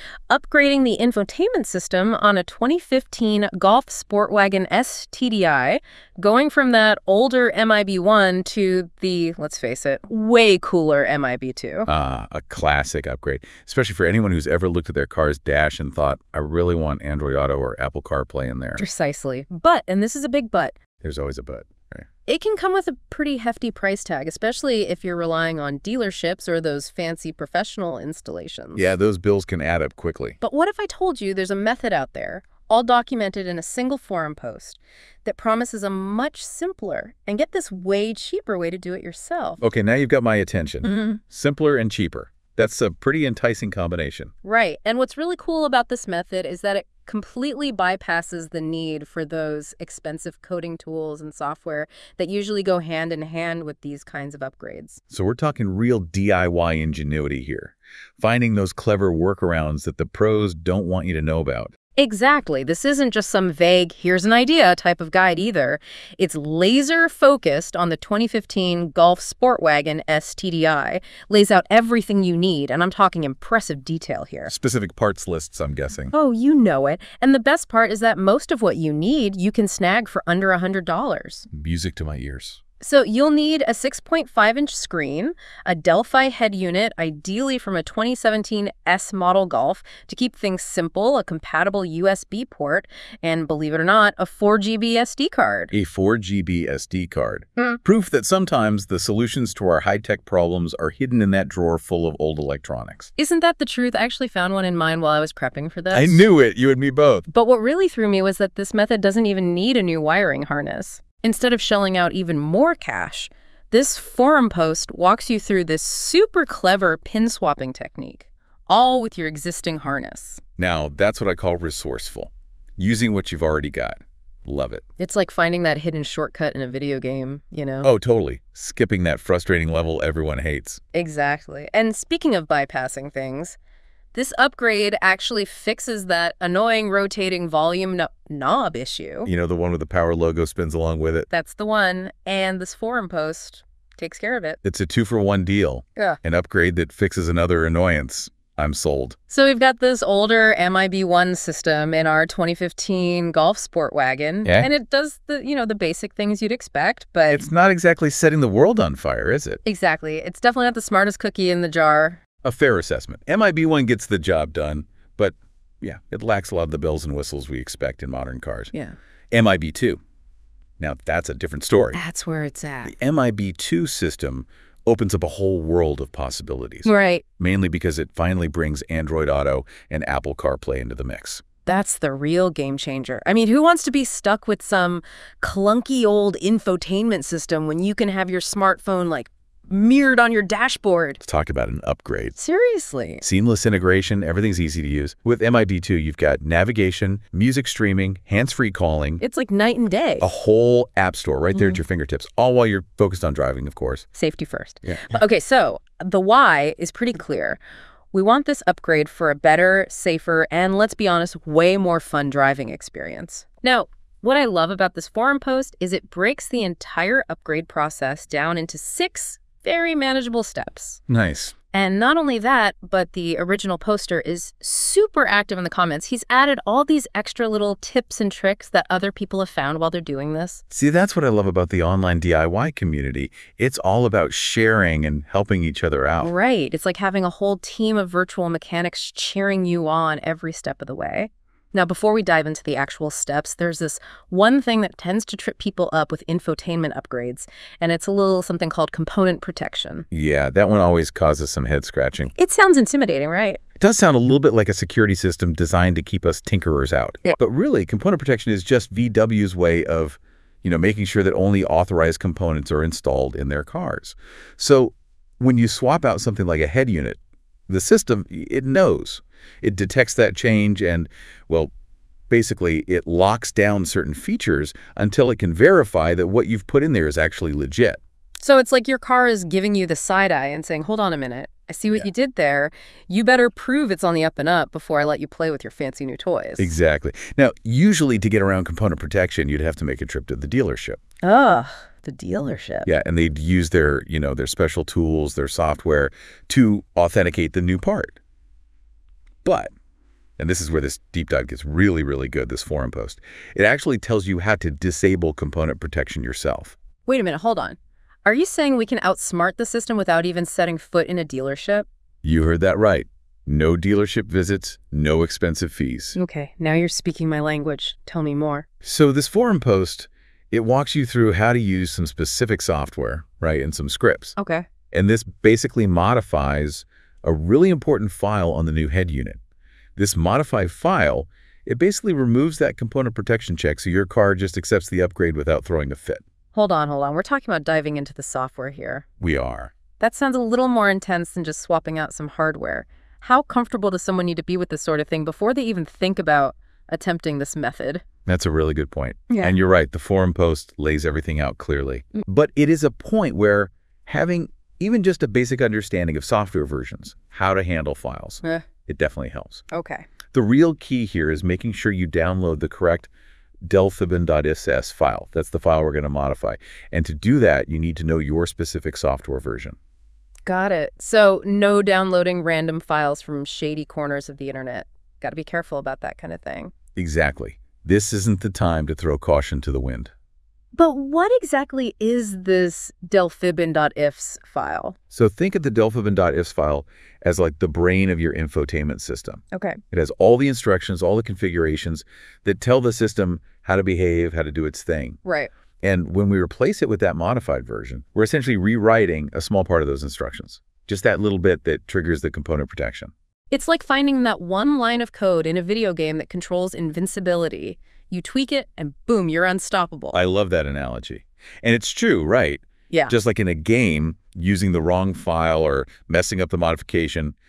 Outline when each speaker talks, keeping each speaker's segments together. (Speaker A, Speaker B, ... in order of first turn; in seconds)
Speaker A: 0.3-11.9, 18.8-20.8, 22.3-28.9, 30.4-39.6, 40.8-41.2, 44.4-55.0, 62.0-74.5, 76.1-81.5, 82.8-95.7, 103.2-106.3, 107.3-120.4, 125.0-127.9, 130.9-133.6, 134.1-139.3, 141.3-144.6, 149.3-157.4, 159.7-162.2, 171.9-172.9, 176.8-177.2, 181.7-191.2, 192.4-193.2, 199.2-200.3, 201.5-201.8, 204.2-207.6, 208.1-221.0, 221.7-230.6, 236.2-250.1, 252.4-253.6, 278.4-286.7, 291.2-292.9, 307.1-311.9, 316.1-318.7, 324.4-324.7, 336.5-339.1, 340.0-348.0, 359.7-360.1, 370.5-376.7, 380.7-384.9, 389.5-389.8, 395.2-395.5, 403.5-410.2
Speaker B: 11.9-18.8, 21.0-22.1, 28.8-30.4, 39.6-44.3, 55.1-61.7, 74.5-76.1, 81.5-82.6, 95.7-103.1, 105.9-107.3, 120.6-124.8, 127.8-130.8, 139.3-141.3, 144.6-149.2, 154.4-154.7, 157.3-159.6, 162.4-168.7, 169.3-170.0, 170.8-172.0, 172.8-176.9, 177.4-181.4, 191.2-192.4, 193.2-199.2, 200.2-204.1, 204.8-205.1, 221.1-221.6, 230.7-236.3, 250.1-252.3, 253.8-271.7, 272.3-278.0, 286.6-291.0, 292.9-298.2, 299.4-299.7, 300.4-306.8, 312.2-316.2, 318.8-324.4, 324.9-329.4, 330.0-336.2, 339.2-339.7, 348.3-359.6, 360.3-363.1, 363.6-369.8, 377.0-380.1, 385.1-395.2, 395.8-403.1, 410.1-417.3